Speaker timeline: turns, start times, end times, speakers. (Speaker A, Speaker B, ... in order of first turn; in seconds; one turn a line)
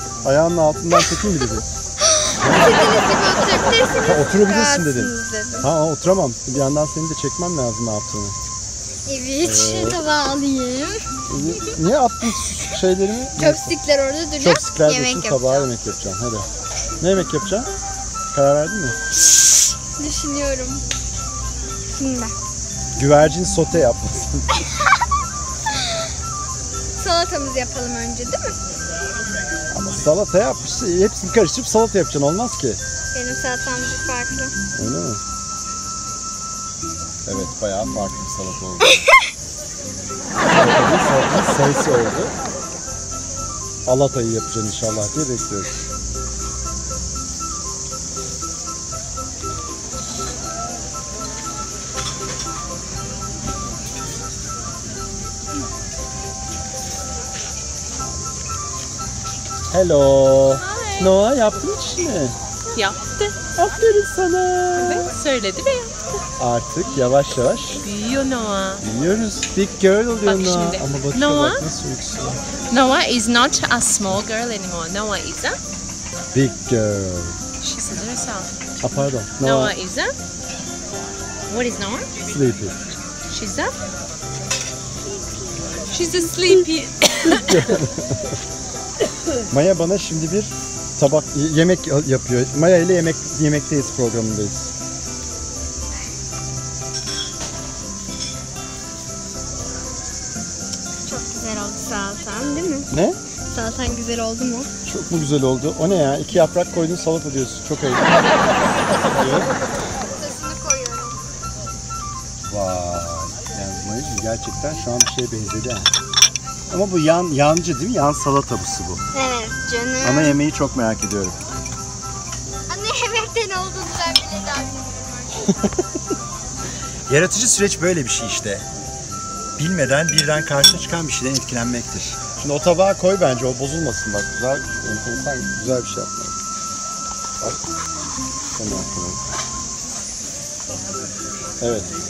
Speaker A: 0.2-1.6
Speaker B: 2.1-5.7
Speaker A: 2.4-2.7
Speaker A: 4.0-8.3
Speaker B: 9.1-11.0
Speaker A: 9.4-10.0
Speaker A: 11.3-13.8
Speaker B: 13.4-15.7
Speaker A: 14.4-16.5
Speaker A: 17.0-17.7
Speaker A: 18.3-19.0
Speaker B: 20.0-20.8
Speaker B: 21.9-22.3
Speaker A: 23.0-24.4
Speaker B: 27.0-28.6
Speaker A: 29.7-32.8
Speaker B: 33.1-34.5
Speaker A: 34.8-35.2
Speaker A: 37.3-38.9
Speaker A: 40.5-42.3
Speaker A: 43.9-45.7
Speaker A: 59.7-62.4
Speaker C: 60.6-61.1
Speaker C: 62.8-63.4
Speaker A: 63.5-65.1
Speaker C: 64.8-66.0
Speaker A: 66.4-67.8
Speaker C: 67.8-68.8
Speaker A: 68.8-72.4
Speaker C: 70.2-71.7
Speaker C: 72.7-75.6
Speaker A: 76.3-77.4
Speaker C: 77.6-78.5
Speaker A: 78.8-79.8
Speaker C: 79.4-80.1
Speaker C: 81.5-82.1
Speaker A: 82.3-82.8
Speaker C: 83.3-83.8
Speaker C: 85.9-87.7
Speaker A: 87.3-88.2
Speaker A: 89.5-94.7
Speaker B: 101.1-102.9
Speaker A: 102.9-103.2
Speaker B: 103.5-104.7
Speaker A: 104.9-108.0
Speaker A: 109.1-109.5
Speaker B: 110.2-111.2
Speaker A: 112.5-115.9
Speaker A: 116.7-119.0
Speaker B: 119.1-120.4
Speaker A: 120.0-121.4
Speaker B: 122.7-125.5
Speaker A: 127.1-128.7
Speaker A: 129.6-136.4
Speaker A: 138.6-139.2
Speaker A: 141.6-141.9